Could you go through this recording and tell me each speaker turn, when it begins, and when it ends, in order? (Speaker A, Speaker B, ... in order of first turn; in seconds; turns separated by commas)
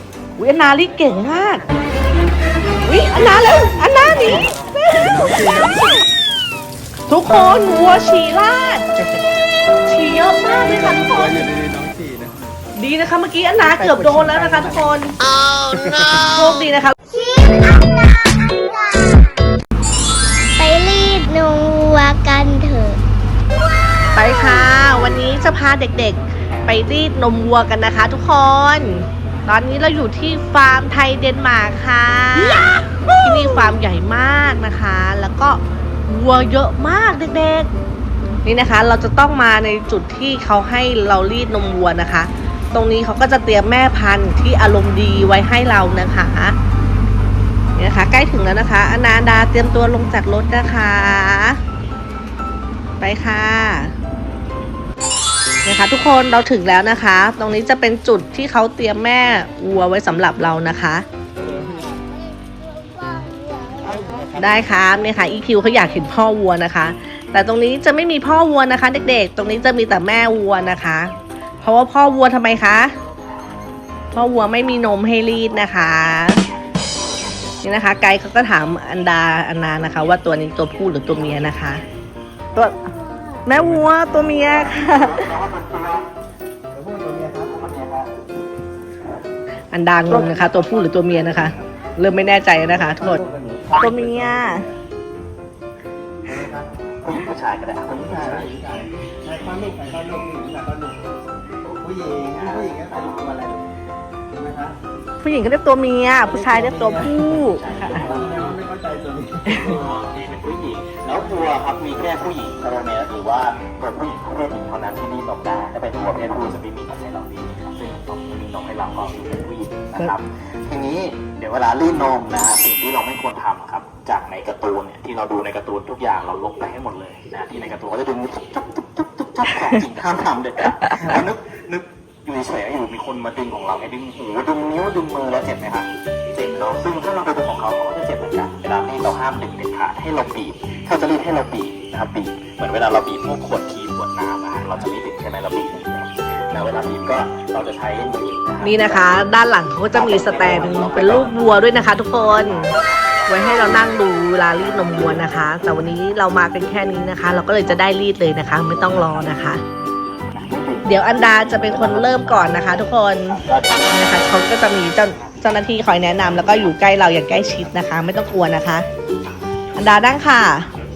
Speaker A: 0.4-1.7, Speaker A: 2.8-5.2, Speaker B: 5.0-5.9, Speaker A: 7.1-8.9, Speaker A: 9.8-11.3, Speaker B: 10.6-12.3, Speaker A: 12.8-15.2, Speaker B: 13.8-14.9, Speaker B: 15.7-16.1, Speaker A: 16.2-16.9, Speaker C: 17.1-19.3, Speaker C: 20.6-23.0, Speaker A: 24.1-37.7, Speaker A: 38.4-46.5, Speaker A: 47.8-51.6, Speaker A: 53.0-53.9, Speaker A: 55.6-61.0, Speaker B: 61.4-61.8, Speaker C: 61.5-64.3, Speaker B: 63.8-64.7, Speaker A: 64.4-72.9, Speaker A: 74.1-76.4, Speaker D: 77.1-77.6, Speaker A: 77.6-81.8, Speaker A: 83.4-85.3, Speaker B: 83.5-84.0, Speaker D: 84.3-86.1, Speaker B: 86.7-87.5, Speaker D: 87.5-88.1, Speaker A: 89.7-93.2, Speaker B: 92.8-94.7, Speaker A: 93.8-94.7, Speaker B: 96.2-96.7, Speaker D: 97.0-98.5, Speaker B: 97.9-101.2, Speaker B: 101.8-103.7, Speaker D: 101.8-103.4, Speaker B: 104.3-104.8, Speaker A: 105.2-108.0, Speaker B: 106.2-109.9, Speaker D: 107.5-108.6, Speaker A: 109.5-109.7, Speaker D: 109.7-149.2, Speaker A: 148.6-152.7, Speaker D: 149.9-153.8, Speaker A: 153.3-159.6, Speaker D: 160.3-164.4, Speaker A: 160.8-163.4, Speaker A: 163.9-168.8, Speaker A: 169.8-170.7